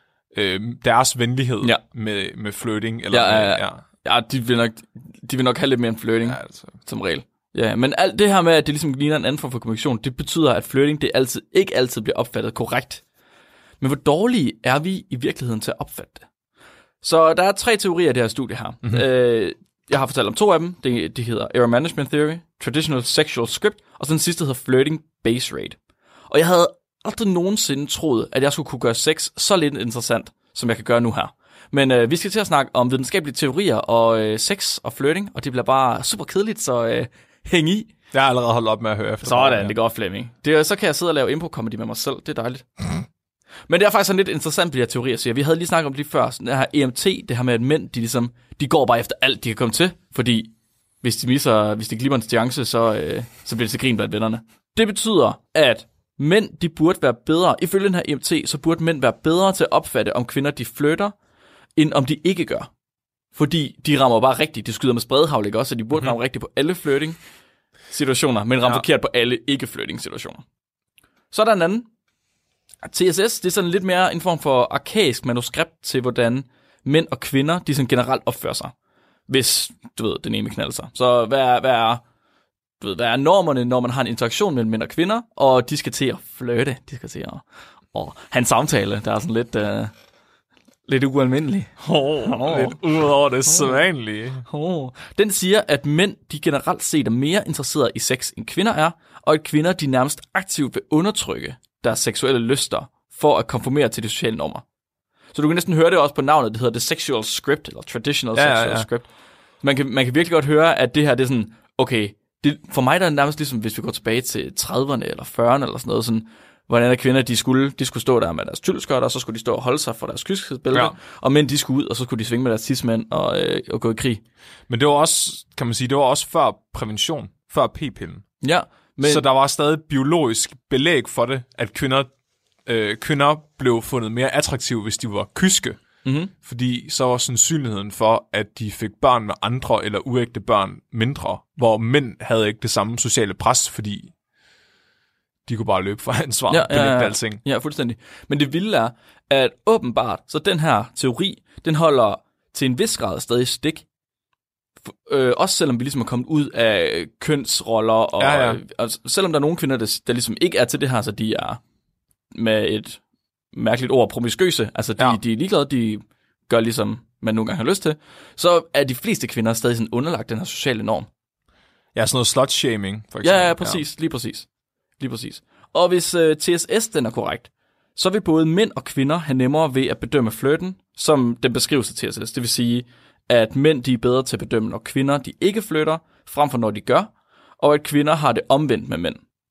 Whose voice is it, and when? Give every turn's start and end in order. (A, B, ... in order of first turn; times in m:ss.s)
0:00.3-0:03.8 A
0:03.1-0:13.0 B
0:06.2-0:06.7 A
0:13.8-0:16.2 B
0:17.0-0:25.8 B
0:26.3-0:37.9 B
0:38.1-0:39.7 A
0:39.2-0:42.6 B
0:43.7-1:01.1 B
1:01.8-1:02.7 B
1:03.3-1:07.2 B
1:07.9-1:10.4 B
1:11.3-1:11.9 B
1:12.8-1:18.7 B
1:19.3-1:22.0 B
1:22.8-1:29.9 B
1:30.9-1:32.8 B
1:31.8-1:34.4 A
1:33.4-1:33.8 B
1:34.4-1:44.6 B
1:45.3-1:49.1 B
1:48.4-1:48.9 A
1:49.6-2:04.2 B
2:04.7-2:08.2 A
2:08.4-2:09.2 B
2:09.0-2:12.1 A
2:12.6-2:15.8 A
2:16.0-2:16.3 B
2:16.4-2:24.1 A
2:25.5-2:27.4 A
2:26.5-2:33.8 B
2:34.9-2:41.6 B
2:38.2-2:38.6 A
2:42.3-2:43.0 B
2:43.5-2:51.1 B
2:51.9-2:53.8 A
2:53.2-2:54.5 B
2:55.0-3:09.2 B